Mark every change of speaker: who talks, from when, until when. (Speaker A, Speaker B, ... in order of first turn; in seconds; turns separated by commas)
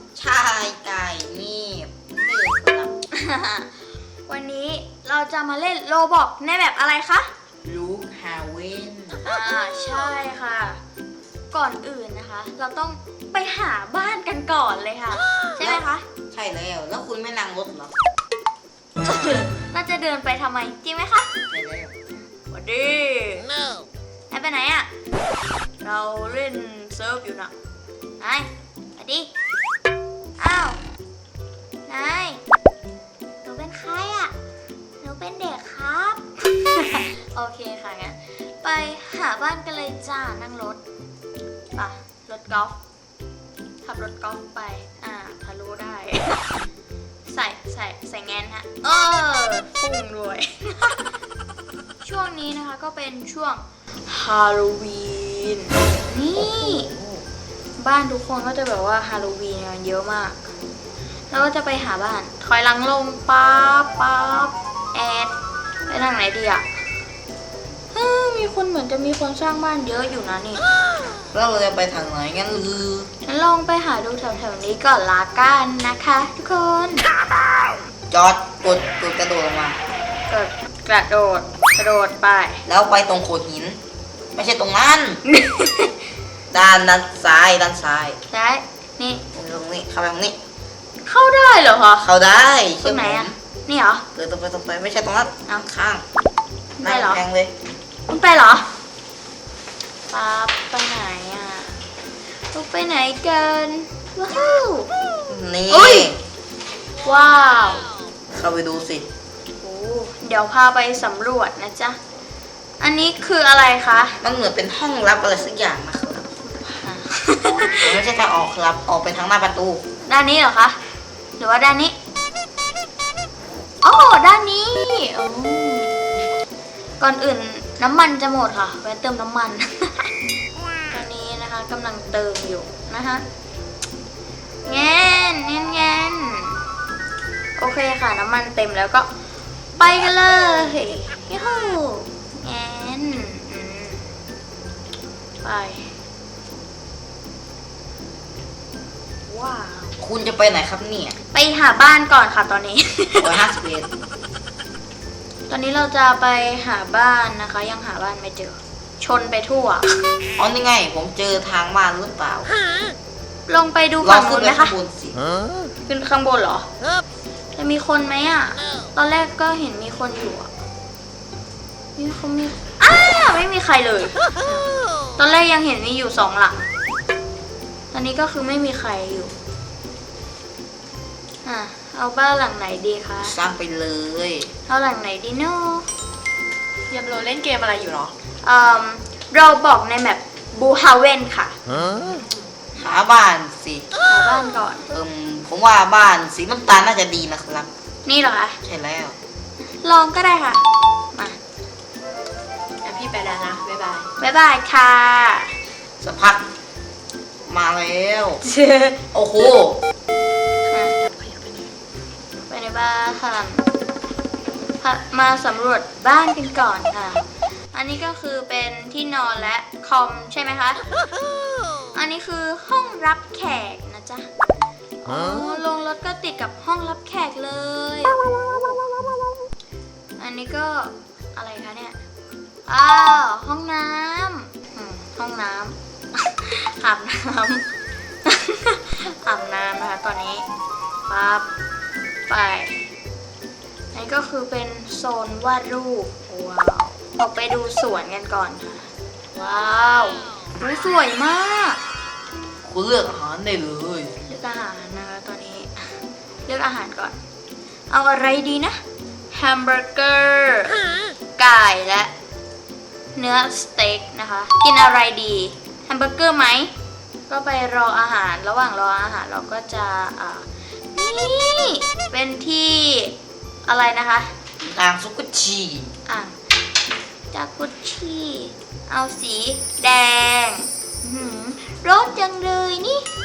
Speaker A: 0.1-2.9, Speaker B: 3.1-7.3, Speaker A: 7.6-9.2, Speaker B: 9.2-10.8, Speaker B: 11.5-16.0, Speaker A: 15.6-17.9, Speaker B: 19.0-21.3, Speaker A: 21.5-21.9, Speaker B: 22.1-23.5, Speaker B: 24.3-24.9, Speaker B: 25.8-27.5, Speaker B: 28.2-29.3, Speaker B: 30.4-30.8, Speaker B: 31.9-32.4, Speaker B: 33.4-34.3, Speaker B: 35.0-40.8, Speaker B: 41.7-42.8, Speaker B: 43.8-46.6, Speaker B: 47.2-51.1, Speaker B: 52.0-56.9, Speaker A: 56.3-57.2, Speaker B: 57.8-60.4, Speaker B: 61.3-65.3, Speaker B: 65.9-66.6, Speaker B: 67.9-70.6, Speaker A: 71.3-73.1, Speaker B: 73.2-77.1, Speaker A: 78.1-79.8, Speaker B: 80.3-82.6, Speaker A: 82.7-83.8, Speaker A: 84.3-85.2, Speaker B: 85.2-86.0, Speaker A: 86.5-88.2, Speaker B: 88.3-89.2, Speaker A: 89.3-90.4, Speaker B: 91.0-92.1, Speaker A: 92.0-93.3, Speaker B: 92.8-94.0, Speaker A: 94.2-96.0, Speaker B: 96.8-97.2, Speaker A: 96.8-97.5, Speaker B: 98.1-98.7, Speaker B: 100.1-101.8, Speaker B: 102.5-105.0, Speaker A: 105.3-106.2, Speaker B: 105.7-106.1, Speaker B: 107.0-107.9, Speaker A: 108.3-109.1, Speaker B: 109.6-112.0, Speaker B: 112.8-114.2, Speaker A: 114.2-116.5, Speaker B: 116.8-118.0, Speaker A: 117.7-119.8, Speaker B: 120.0-120.8, Speaker B: 121.4-121.9, Speaker B: 123.8-125.9, Speaker B: 127.0-130.1, Speaker B: 130.9-133.2, Speaker B: 134.7-136.6, Speaker B: 137.6-139.1, Speaker B: 139.8-144.1, Speaker B: 145.4-145.9, Speaker B: 149.3-150.0, Speaker A: 150.0-151.2, Speaker B: 151.3-153.3, Speaker A: 153.2-153.9, Speaker B: 155.5-160.0, Speaker A: 160.4-162.5, Speaker B: 163.5-164.7, Speaker A: 164.0-165.2, Speaker B: 165.8-166.7, Speaker B: 167.6-170.5, Speaker B: 172.0-174.1, Speaker B: 175.2-176.7, Speaker B: 177.9-179.3, Speaker B: 181.4-183.3, Speaker A: 183.2-184.5, Speaker B: 184.7-185.9, Speaker C: 186.9-188.1, Speaker B: 188.4-191.6, Speaker C: 192.0-192.2, Speaker A: 192.7-193.9, Speaker B: 194.1-194.9, Speaker A: 194.9-197.7, Speaker B: 198.0-198.6, Speaker A: 198.6-199.2, Speaker B: 199.8-200.6, Speaker C: 202.8-204.1, Speaker B: 204.2-205.5, Speaker A: 206.0-206.4, Speaker A: 207.5-208.4, Speaker B: 208.4-209.0, Speaker A: 209.1-209.8, Speaker B: 210.7-211.0, Speaker C: 211.0-211.7, Speaker B: 212.5-213.6, Speaker B: 214.8-220.8, Speaker B: 221.9-224.3, Speaker B: 225.0-228.3, Speaker B: 230.2-232.0, Speaker B: 232.7-237.6, Speaker B: 238.2-240.4, Speaker B: 241.1-241.4, Speaker B: 242.3-242.8, Speaker B: 243.9-251.8, Speaker A: 252.6-254.2, Speaker B: 254.2-255.9, Speaker B: 256.4-257.2, Speaker B: 257.9-258.8, Speaker B: 259.3-260.8, Speaker B: 261.4-262.1, Speaker B: 263.1-266.7, Speaker B: 267.3-273.1, Speaker B: 273.6-274.3, Speaker A: 274.6-275.9, Speaker B: 276.1-276.3, Speaker B: 277.3-283.1